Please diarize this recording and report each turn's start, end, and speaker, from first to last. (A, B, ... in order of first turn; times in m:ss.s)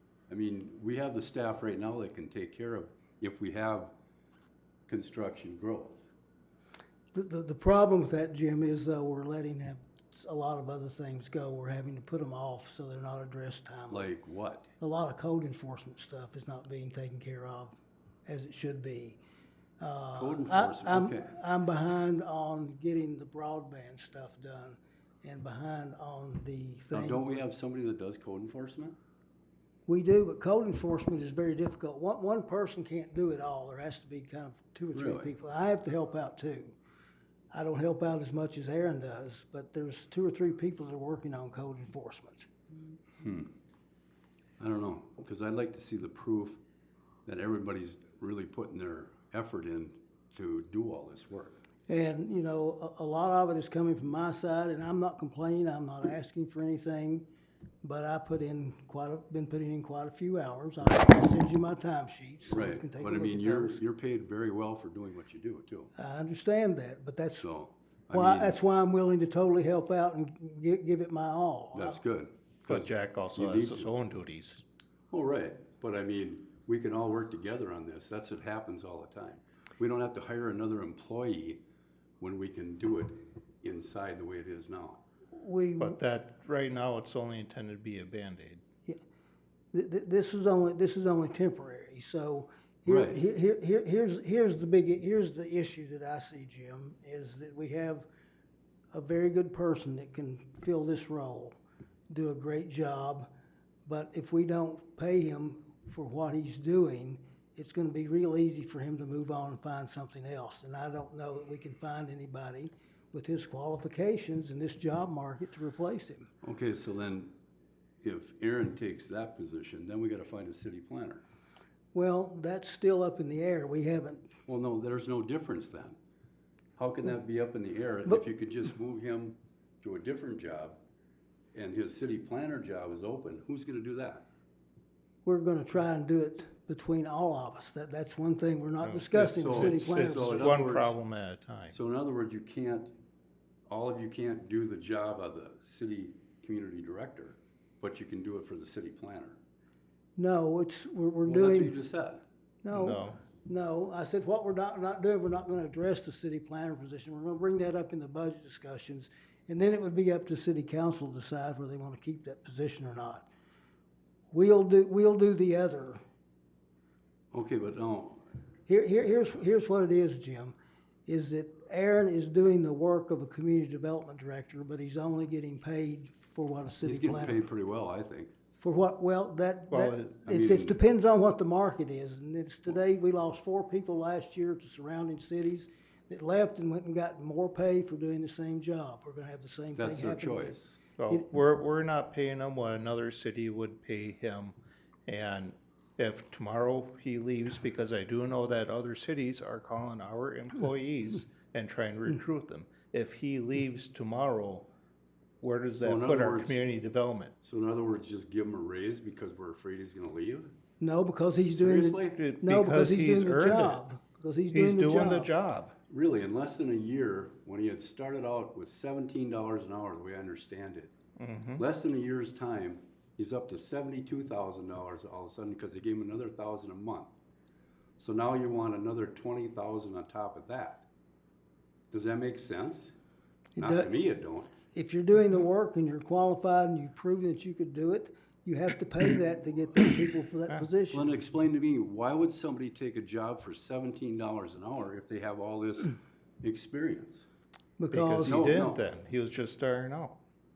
0:00.3-0:03.9 A
0:04.9-0:06.1 A
0:07.1-0:14.1 B
0:13.9-0:14.7 A
0:14.8-0:19.2 B
0:19.8-0:27.4 B
0:20.1-0:21.4 A
0:26.9-0:29.0 A
0:29.9-0:36.8 B
0:34.9-0:35.3 A
0:37.5-0:42.5 B
0:43.2-0:43.5 A
0:44.6-0:46.6 A
0:47.3-0:51.6 A
0:51.9-0:57.2 B
0:57.8-1:03.8 B
1:02.5-1:05.9 A
1:06.0-1:07.5 B
1:07.4-1:08.6 A
1:08.1-1:12.0 B
1:11.7-1:13.9 A
1:12.7-1:14.6 C
1:15.1-1:21.6 A
1:22.2-1:25.0 A
1:25.4-1:26.0 B
1:25.8-1:28.6 C
1:29.7-1:38.1 B
1:32.9-1:33.2 A
1:38.9-1:41.6 B
1:42.1-1:43.3 B
1:43.9-1:56.3 B
1:56.4-1:57.3 A
1:58.0-2:01.2 A
2:01.9-2:04.3 B
2:04.5-2:06.0 A
2:06.8-2:10.8 A
2:11.5-2:14.2 A
2:15.2-2:20.6 B
2:18.8-2:21.8 C
2:19.1-2:21.0 A
2:21.7-2:22.9 A
2:23.7-2:29.4 A
2:30.2-2:31.8 B
2:31.2-2:32.2 A
2:32.6-2:43.3 B
2:32.7-2:33.2 C
2:44.3-2:46.0 B
2:47.3-2:48.2 A
2:48.7-2:50.6 B
2:51.1-2:57.4 B
2:56.8-2:58.3 A
2:58.6-3:10.6 B
2:59.7-3:00.2 C
3:00.2-3:00.8 A
3:09.8-3:10.8 A
3:11.0-3:14.6 C
3:15.1-3:24.7 C
3:25.4-3:27.3 C
3:25.8-3:26.6 A
3:27.4-3:30.5 A
3:30.8-3:35.3 B
3:31.5-3:32.2 A
3:32.1-3:33.8 C
3:34.5-3:35.7 C
3:35.9-3:40.9 A
3:41.2-3:41.6 C
3:41.6-3:47.1 A
3:48.0-3:50.8 A
3:51.9-3:52.9 A
3:53.6-3:53.9 B
3:53.6-3:54.5 A
3:54.7-4:01.2 B
4:00.9-4:07.3 A
4:07.8-4:08.6 B
4:07.9-4:10.2 C
4:08.2-4:08.8 A